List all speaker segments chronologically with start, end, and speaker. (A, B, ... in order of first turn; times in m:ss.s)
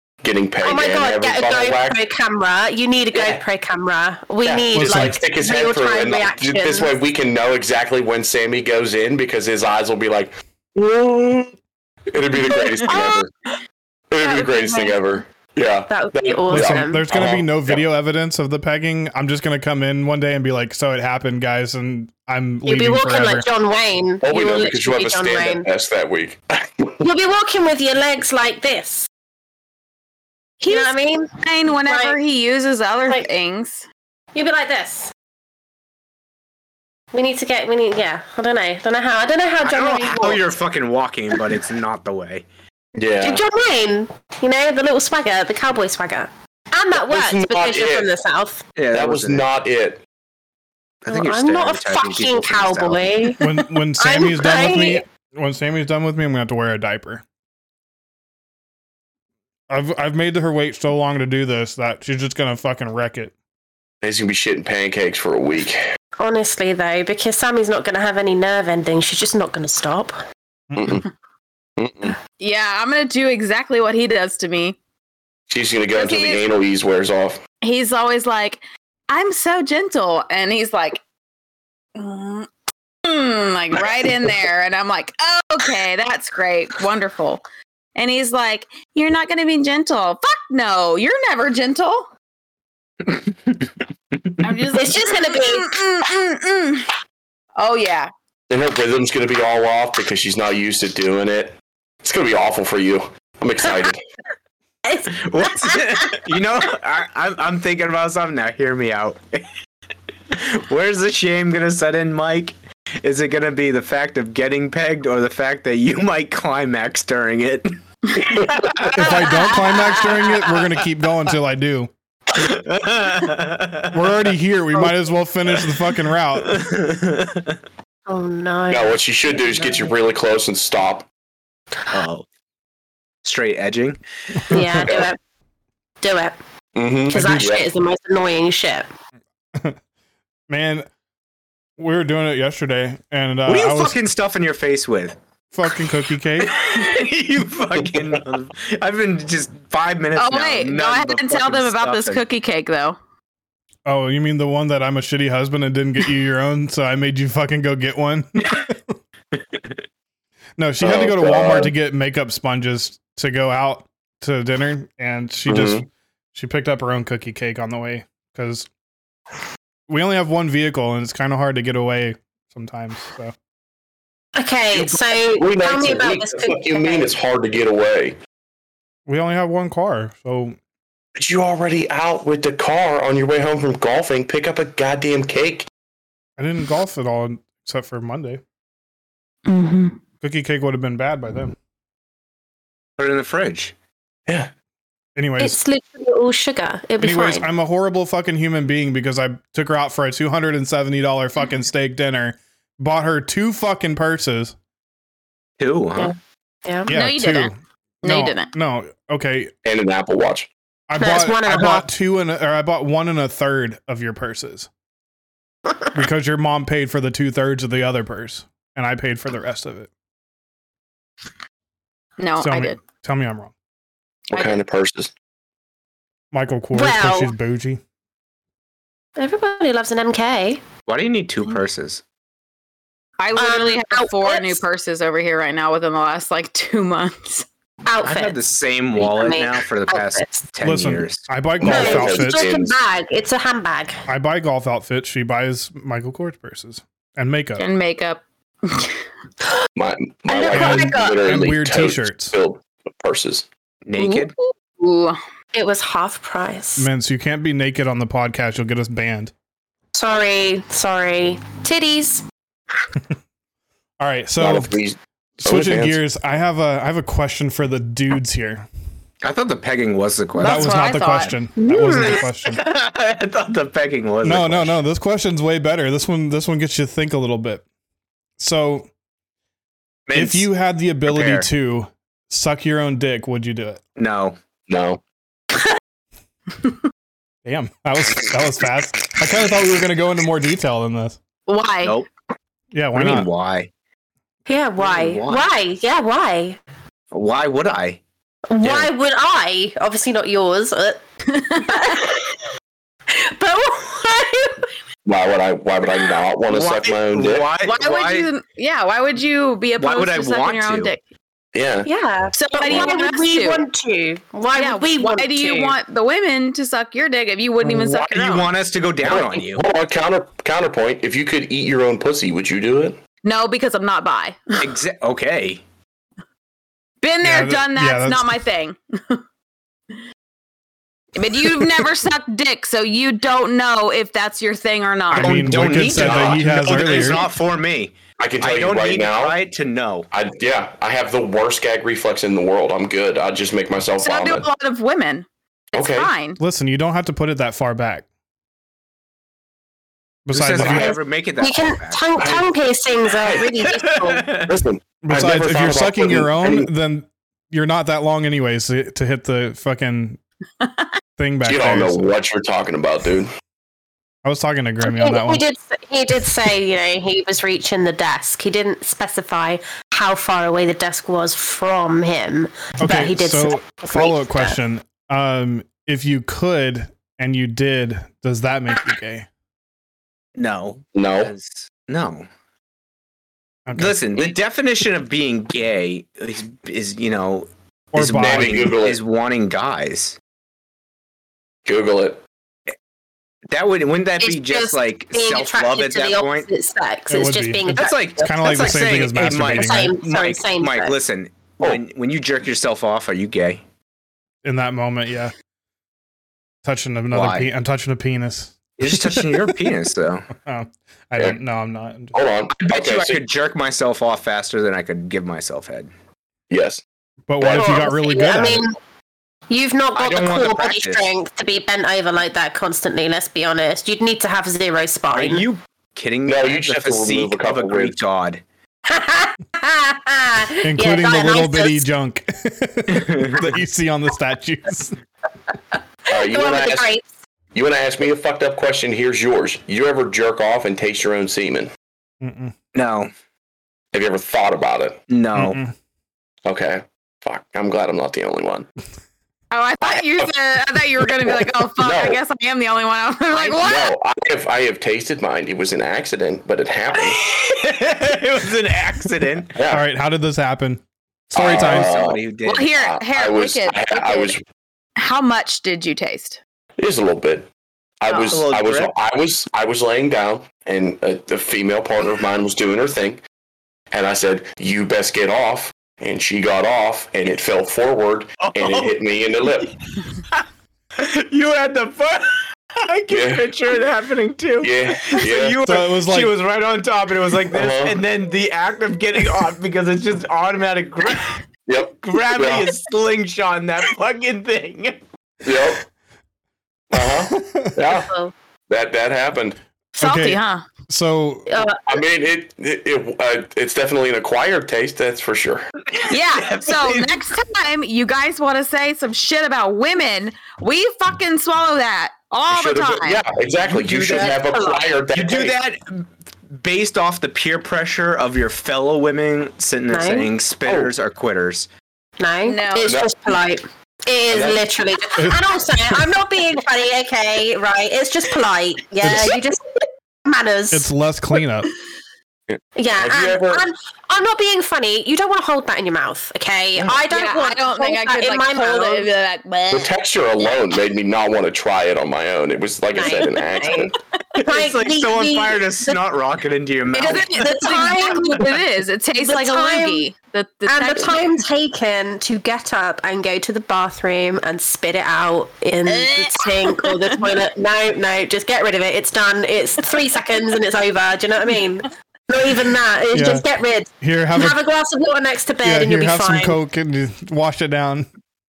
0:00.2-0:02.0 A
0:00.6-0:06.9 B
0:03.1-0:03.4 A
0:04.4-0:11.6 A
0:04.7-0:05.2 C
0:12.1-0:13.3 A
0:12.5-0:13.2 B
0:14.1-0:17.8 A
0:14.2-0:15.0 B
0:15.9-0:17.0 B
0:16.5-0:23.5 C
0:22.7-0:25.7 B
0:24.2-0:27.0 A
0:27.0-0:29.1 B
0:30.6-0:33.8 D
0:30.6-0:31.3 B
0:31.8-0:32.2 B
0:34.3-0:35.1 B
0:37.1-0:40.5 B
0:39.6-0:42.5 E
0:43.0-0:43.4 A
0:43.2-0:48.6 B
0:47.0-0:48.1 A
0:48.8-0:49.5 E
0:48.9-0:50.0 A
0:51.0-0:53.3 E
0:51.1-0:55.0 B
0:53.4-0:57.2 C
0:59.7-1:03.3 C
1:04.0-1:05.8 A
1:06.2-1:10.2 B
1:10.7-1:11.0 C
1:10.8-1:11.1 A
1:11.8-1:12.2 A
1:12.4-1:14.8 D
1:15.5-1:17.4 A
1:16.0-1:16.4 D
1:17.6-1:21.0 D
1:22.0-1:22.5 D
1:23.0-1:27.4 D
1:28.0-1:32.1 D
1:33.0-1:34.4 E
1:34.4-1:36.9 D
1:34.7-1:35.8 B
1:37.6-1:38.1 D
1:38.5-1:44.0 A
1:44.8-1:45.8 B
1:45.1-1:49.5 E
1:50.3-1:59.2 E
1:58.9-2:01.9 C
1:59.2-2:00.2 D
2:02.3-2:04.1 E
2:03.9-2:06.6 C
2:06.4-2:07.6 E
2:08.1-2:09.0 B
2:08.7-2:11.1 A
2:09.6-2:09.9 E
2:11.9-2:12.3 E
2:13.2-2:14.6 E
2:14.5-2:15.2 B
2:14.8-2:15.1 A
2:16.0-2:16.4 B
2:16.8-2:17.7 A
2:17.1-2:18.9 B
2:17.2-2:17.4 C
2:20.5-2:20.9 C
2:21.8-2:24.0 C
2:23.5-2:25.2 E
2:25.5-2:26.6 C
2:26.4-2:32.2 E
2:30.2-2:33.0 D
2:33.9-2:38.8 C
2:40.6-2:48.7 C
2:40.8-2:41.7 A
2:45.5-2:45.9 A
2:49.9-2:53.3 C
2:54.4-2:57.1 B
2:54.7-2:58.2 A
2:59.1-3:00.6 C
3:01.2-3:05.7 A
3:06.4-3:08.4 C
3:09.6-3:09.9 B
3:10.2-3:11.6 C
3:13.0-3:13.7 E
3:15.2-3:15.6 C
3:15.4-3:17.5 B
3:17.0-3:24.6 C
3:25.6-3:26.1 E
3:26.0-3:26.9 B
3:26.9-3:29.5 C
3:26.9-3:27.5 D
3:28.0-3:28.5 D
3:29.6-3:30.5 A
3:30.9-3:34.7 C
3:31.0-3:31.9 B
3:35.9-3:39.9 C
3:42.2-3:42.8 D
3:42.4-3:43.5 C
3:44.3-3:45.1 A
3:46.3-3:47.8 C
3:46.7-3:47.3 B
3:49.2-3:50.6 B
3:50.9-3:52.0 E
3:53.2-3:57.5 D
3:53.4-3:54.6 B
3:57.8-3:58.4 B
3:58.0-4:01.2 E
3:59.0-4:00.3 B
4:00.6-4:02.5 C
4:01.6-4:02.8 A
4:01.6-4:04.0 B
4:04.1-4:07.7 C
4:07.6-4:09.0 D
4:09.8-4:13.5 A
4:10.3-4:11.2 B
4:10.5-4:12.4 C
4:13.9-4:14.3 E
4:14.0-4:15.2 D
4:15.5-4:16.9 B
4:16.8-4:19.3 C
4:20.0-4:22.2 B
4:24.0-4:24.8 C
4:24.4-4:26.0 A
4:25.4-4:28.7 C
4:29.2-4:30.8 E
4:30.4-4:31.3 D
4:30.4-4:32.6 C
4:31.6-4:32.2 B
4:32.0-4:34.8 E
4:34.2-4:37.6 C
4:38.4-4:38.9 C
4:40.1-4:40.5 E
4:40.2-4:43.8 C
4:41.0-4:41.5 E
4:44.0-4:44.4 E
4:44.7-4:45.0 A
4:47.4-4:51.2 C
4:51.5-4:52.0 D
4:52.7-4:53.3 C
4:52.9-4:53.7 E
4:54.5-4:56.6 B
4:54.8-4:55.5 E
4:57.1-4:58.0 E
4:58.5-5:02.3 B
4:58.6-4:58.9 E
5:01.4-5:02.0 D
5:03.1-5:04.7 B
5:05.1-5:07.5 A
5:06.5-5:08.3 E
5:07.6-5:11.0 D
5:09.8-5:10.9 E
5:11.5-5:11.9 A
5:11.9-5:15.8 B
5:12.4-5:13.6 D
5:12.6-5:12.9 A
5:14.6-5:18.5 D
5:17.6-5:19.6 E
5:19.0-5:23.0 A
5:23.2-5:24.6 D
5:24.6-5:25.6 E
5:27.0-5:29.2 D
5:27.2-5:28.4 C
5:31.2-5:35.4 D
5:35.1-5:37.3 C
5:35.1-5:40.1 E
5:35.6-5:37.2 A
5:38.2-5:39.4 A
5:40.1-5:44.5 A
5:44.0-5:46.4 D
5:45.7-5:46.1 A
5:46.4-5:48.1 C
5:50.3-5:51.0 C
5:50.3-5:52.2 E
5:50.6-5:54.4 B
5:52.2-5:52.5 A
5:53.2-5:53.6 A
5:53.6-5:54.5 E
5:54.4-5:56.7 A
5:55.0-6:00.2 C
6:00.6-6:00.9 D
6:01.2-6:02.1 C
6:01.4-6:03.3 A
6:04.2-6:05.4 C
6:04.8-6:14.6 B
6:12.8-6:19.3 C
6:20.4-6:22.3 E
6:21.0-6:21.3 A
6:23.7-6:24.2 C
6:23.8-6:30.2 E
6:27.9-6:28.7 C
6:28.2-6:29.0 A
6:31.7-6:32.2 A
6:33.5-6:36.5 E
6:34.2-6:41.0 B
6:37.1-6:40.0 C
6:37.7-6:43.6 E
6:44.4-6:45.3 C
6:46.6-6:49.6 C
6:47.1-6:47.5 E
6:48.8-6:50.3 E
6:50.4-6:52.2 C
6:52.1-6:53.2 A
6:52.5-6:55.9 E
6:56.5-6:56.8 A
6:57.3-6:58.6 C
6:57.4-6:57.8 A
6:57.5-6:58.8 B
6:59.5-7:05.4 B
7:00.0-7:01.1 E
7:05.1-7:08.4 E
7:06.3-7:08.0 A
7:08.9-7:11.9 B
7:10.6-7:15.0 C
7:12.9-7:13.5 E
7:16.1-7:16.9 A
7:16.2-7:17.0 B
7:17.5-7:21.7 A
7:22.2-7:22.6 C
7:22.7-7:23.1 E
7:23.9-7:25.0 A
7:25.1-7:25.6 E
7:25.4-7:25.8 C
7:26.5-7:28.7 A
7:29.5-7:33.9 D
7:29.8-7:30.3 A
7:31.1-7:32.2 A
7:33.3-7:37.2 A
7:37.2-7:39.5 E
7:39.5-7:39.8 A
7:39.7-7:41.9 C
7:41.3-7:42.2 A
7:41.4-7:42.7 E
7:42.4-7:44.4 D
7:42.8-7:44.4 A
7:45.0-7:46.4 D
7:46.8-7:47.5 A
7:48.0-7:53.2 A
7:48.1-7:48.9 E
7:53.9-7:59.8 A
7:58.4-7:59.0 E
7:59.6-8:00.4 E
8:01.0-8:11.4 E
8:03.1-8:03.5 A
8:04.6-8:05.6 A
8:05.6-8:06.3 C
8:07.5-8:08.0 A
8:11.7-8:12.7 A
8:12.0-8:15.0 E
8:15.4-8:15.8 A
8:16.9-8:18.1 A
8:17.3-8:17.7 C
8:17.9-8:18.3 B
8:18.7-8:19.6 A
8:20.0-8:20.6 D
8:20.0-8:21.6 C
8:21.5-8:22.0 B
8:21.9-8:25.7 A
8:25.9-8:27.2 E
8:26.1-8:33.2 D
8:32.5-8:35.6 A
8:33.7-8:34.4 E
8:34.1-8:34.9 B
8:35.1-8:41.7 E
8:39.9-8:40.3 B
8:40.6-8:40.9 A
8:42.2-8:50.9 B
8:42.4-8:42.9 D
8:42.8-8:43.1 A
8:44.3-8:44.6 A
8:50.7-8:51.7 C
8:52.5-8:53.7 A
8:52.8-8:59.1 B
8:57.1-8:59.9 D
8:59.7-9:03.9 A
9:02.9-9:06.0 B
9:04.4-9:07.8 E
9:06.9-9:11.3 D
9:07.4-9:08.6 B
9:09.2-9:10.0 B
9:10.7-9:26.6 B
9:15.9-9:17.4 D
9:23.1-9:23.4 C
9:24.0-9:24.6 C
9:25.6-9:28.1 C